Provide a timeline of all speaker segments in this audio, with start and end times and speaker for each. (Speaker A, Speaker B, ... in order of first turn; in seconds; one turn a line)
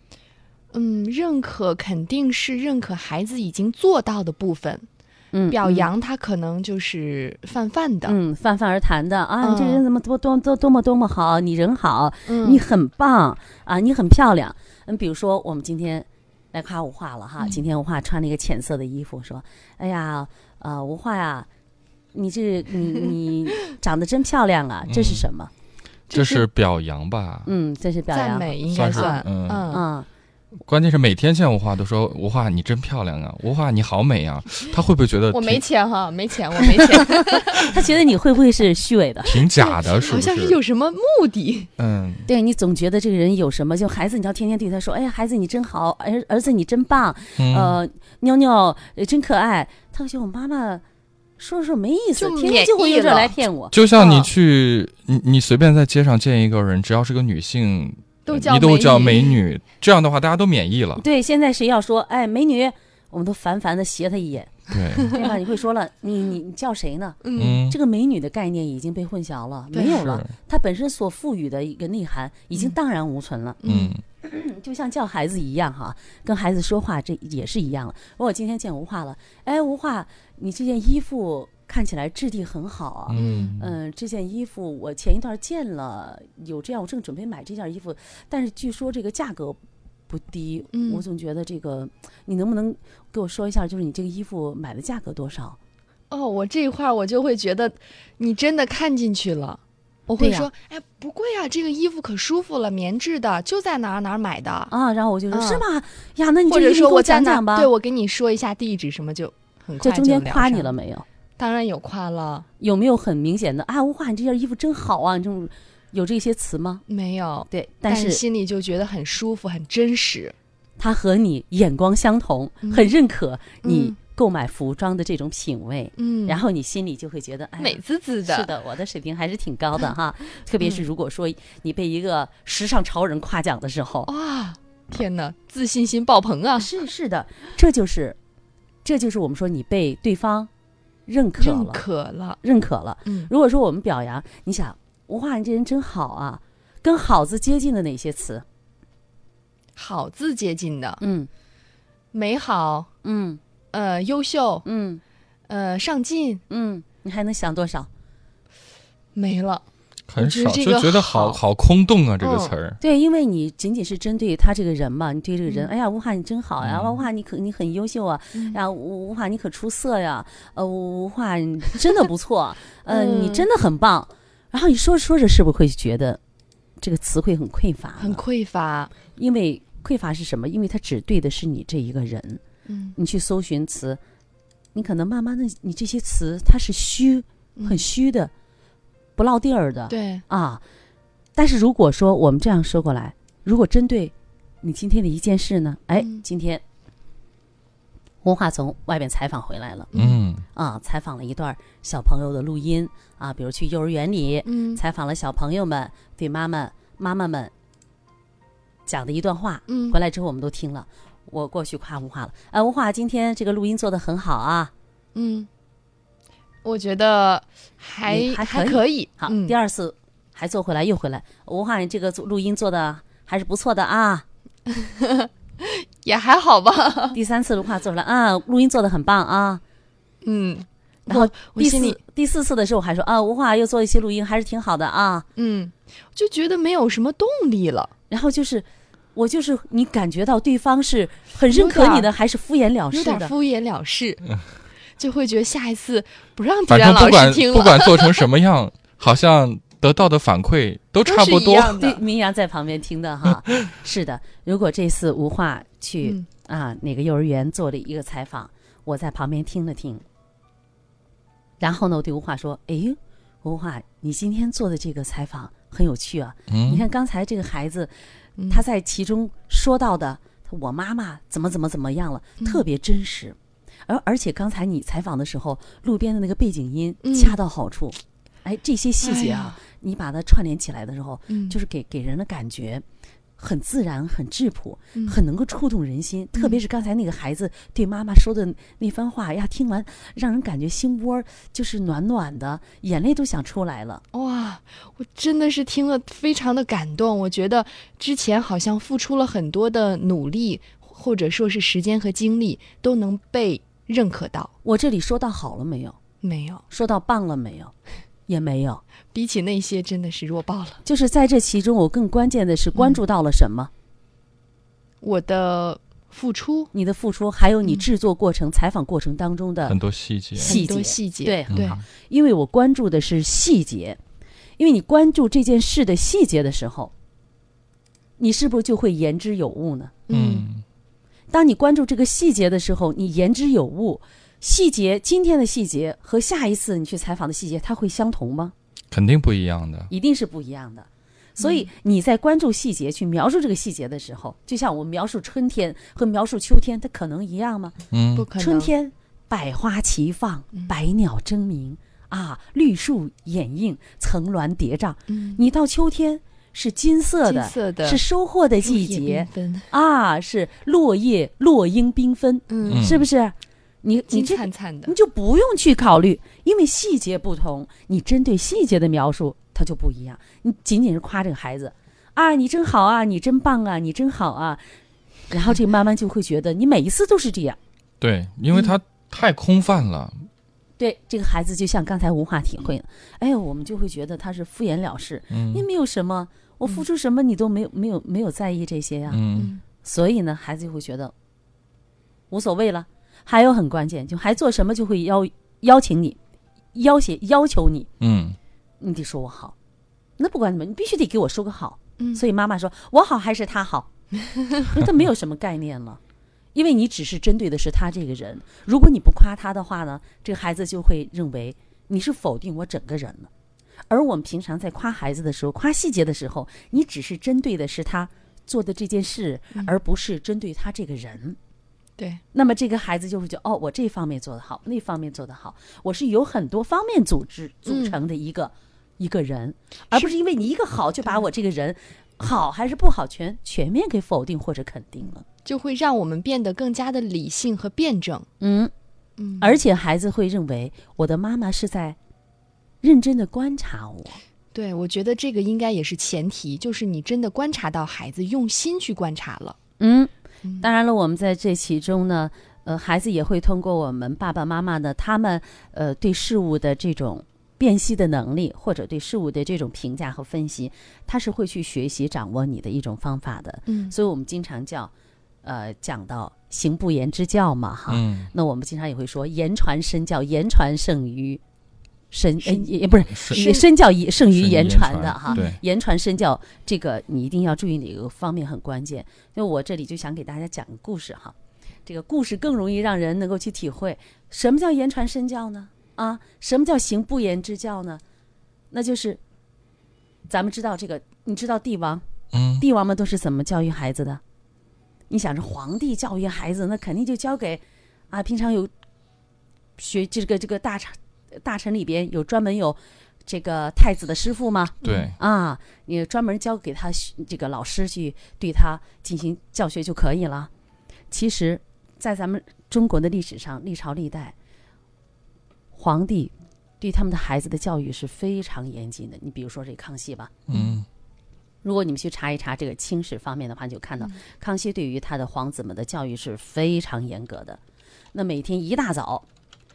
Speaker A: 0.7-4.9
Speaker B: 5.3-5.9
Speaker A: 5.5-8.2
Speaker B: 8.1-21.5
Speaker A: 9.4-9.8
Speaker A: 12.2-12.6
Speaker B: 22.1-25.5
Speaker C: 24.9-25.2
Speaker A: 26.1-26.4
Speaker C: 26.1-27.5
Speaker B: 27.4-29.2
Speaker A: 28.1-29.8
Speaker C: 28.7-29.7
Speaker B: 29.7-30.1
Speaker C: 30.6-35.6
Speaker A: 35.3-37.7
Speaker B: 37.5-39.4
Speaker C: 39.2-40.6
Speaker A: 39.5-41.7
Speaker C: 41.8-42.3
Speaker B: 42.3-50.8
Speaker C: 47.4-47.8
Speaker B: 51.4-53.7
Speaker A: 52.2-53.4
Speaker C: 53.7-61.0
Speaker A: 53.9-54.3
Speaker A: 58.2-59.4
Speaker B: 61.0-73.6
Speaker C: 64.7-65.1
Speaker A: 67.2-67.6
Speaker C: 67.4-67.8
Speaker A: 69.7-70.0
Speaker C: 69.9-70.3
Speaker A: 73.6-74.0
Speaker C: 73.7-74.0
Speaker B: 74.2-95.6
Speaker C: 83.1-83.8
Speaker A: 83.1-83.5
Speaker A: 90.7-91.0
Speaker A: 96.1-104.7
Speaker B: 100.2-100.5
Speaker B: 104.7-107.7
Speaker A: 105.3-105.6
Speaker A: 106.5-110.7
Speaker B: 109.8-111.0
Speaker A: 111.4-112.5
Speaker B: 112.6-116.8
Speaker A: 116.9-120.3
Speaker B: 117.5-118.2
Speaker B: 120.8-134.1
Speaker A: 122.6-122.9
Speaker A: 123.6-123.9
Speaker A: 126.0-126.4
Speaker A: 127.6-128.5
Speaker A: 134.1-136.7
Speaker B: 136.6-138.2
Speaker B: 138.8-140.5
Speaker B: 141.1-141.8
Speaker A: 141.4-142.4
Speaker B: 142.4-148.4
Speaker A: 143.0-143.3
Speaker A: 149.8-151.0
Speaker B: 151.0-151.3
Speaker A: 152.1-152.9
Speaker B: 153.0-153.4
Speaker A: 153.7-154.6
Speaker B: 154.6-155.0
Speaker A: 155.5-156.4
Speaker B: 156.5-157.9
Speaker A: 159.1-159.6
Speaker C: 160.1-162.8
Speaker A: 160.2-161.4
Speaker A: 162.2-162.5
Speaker B: 162.8-176.2
Speaker C: 166.6-167.0
Speaker A: 172.9-173.5
Speaker B: 176.8-178.2
Speaker A: 178.0-178.9
Speaker B: 179.2-182.4
Speaker A: 182.7-183.0
Speaker B: 182.9-184.0
Speaker B: 184.7-188.3
Speaker A: 187.6-187.8
Speaker B: 189.2-190.6
Speaker A: 189.9-190.2
Speaker B: 191.3-196.6
Speaker A: 196.0-196.2
Speaker B: 198.2-199.9
Speaker A: 199.9-200.2
Speaker C: 199.9-200.4
Speaker B: 200.5-207.5
Speaker A: 204.4-204.8
Speaker B: 208.8-214.7
Speaker A: 209.7-210.0
Speaker A: 215.1-215.5
Speaker A: 216.6-219.5
Speaker B: 218.1-224.2
Speaker A: 224.7-227.2
Speaker B: 227.1-229.6
Speaker A: 230.2-232.0
Speaker B: 231.1-235.2
Speaker A: 235.3-237.9
Speaker B: 238.1-243.3
Speaker A: 241.5-242.1
Speaker A: 242.9-244.2
Speaker A: 245.0-248.2
Speaker C: 246.7-251.8
Speaker A: 251.0-252.0
Speaker B: 251.8-260.0
Speaker B: 261.6-267.9
Speaker C: 266.5-266.8
Speaker A: 268.4-268.6
Speaker B: 268.5-282.8
Speaker A: 272.4-272.6
Speaker A: 277.0-277.4
Speaker A: 279.0-279.6
Speaker A: 281.3-281.6
Speaker B: 283.4-294.0
Speaker A: 284.9-285.2
Speaker A: 286.3-286.6
Speaker A: 294.1-304.5
Speaker B: 304.6-306.0
Speaker A: 306.2-306.6
Speaker B: 306.7-307.7
Speaker B: 308.3-308.8
Speaker A: 309.1-310.8
Speaker B: 310.8-313.7
Speaker A: 315.0-316.7
Speaker B: 316.7-319.8
Speaker C: 319.7-320.6
Speaker B: 320.4-324.0
Speaker A: 320.4-321.8
Speaker C: 321.5-321.8
Speaker B: 324.6-326.9
Speaker B: 328.2-329.9
Speaker A: 330.1-330.5
Speaker C: 330.1-330.6
Speaker B: 331.3-338.5
Speaker C: 338.9-339.9
Speaker B: 339.9-347.8
Speaker A: 341.4-341.7
Speaker C: 347.9-348.3
Speaker A: 348.1-348.7
Speaker B: 348.3-374.6
Speaker A: 355.1-355.4
Speaker A: 357.2-358.0
Speaker A: 358.6-359.7
Speaker A: 362.5-362.9
Speaker C: 362.7-363.0
Speaker A: 364.1-364.9
Speaker B: 375.3-377.6
Speaker C: 378.0-380.2
Speaker B: 380.8-389.2
Speaker C: 385.3-385.6
Speaker C: 389.1-389.5
Speaker A: 389.4-389.6
Speaker B: 389.8-391.1
Speaker B: 392.3-396.2
Speaker B: 396.7-397.9
Speaker C: 398.0-398.4
Speaker B: 398.8-399.5
Speaker B: 400.2-403.9
Speaker A: 402.0-402.2
Speaker B: 404.6-406.0
Speaker B: 406.5-413.3
Speaker B: 413.9-421.4
Speaker B: 422.3-435.2
Speaker A: 427.7-428.0
Speaker A: 435.4-438.3
Speaker B: 438.4-438.7
Speaker A: 439.2-439.6
Speaker B: 439.4-442.0
Speaker B: 442.8-444.2
Speaker A: 444.5-449.6
Speaker B: 449.8-464.9
Speaker A: 463.6-463.9
Speaker B: 465.4-471.4
Speaker C: 467.9-468.3
Speaker B: 472.1-481.3
Speaker A: 473.3-473.6
Speaker C: 474.3-475.6
Speaker A: 475.3-475.5
Speaker B: 481.9-488.0
Speaker B: 488.7-489.2
Speaker B: 490.3-492.1
Speaker C: 492.3-492.6
Speaker B: 492.6-494.2
Speaker B: 495.1-498.7
Speaker B: 499.8-510.5
Speaker A: 504.8-505.1
Speaker C: 504.8-505.1
Speaker B: 511.1-514.3
Speaker B: 515.7-520.3
Speaker C: 520.5-520.9
Speaker A: 520.5-520.8
Speaker B: 521.6-527.6
Speaker B: 528.1-529.2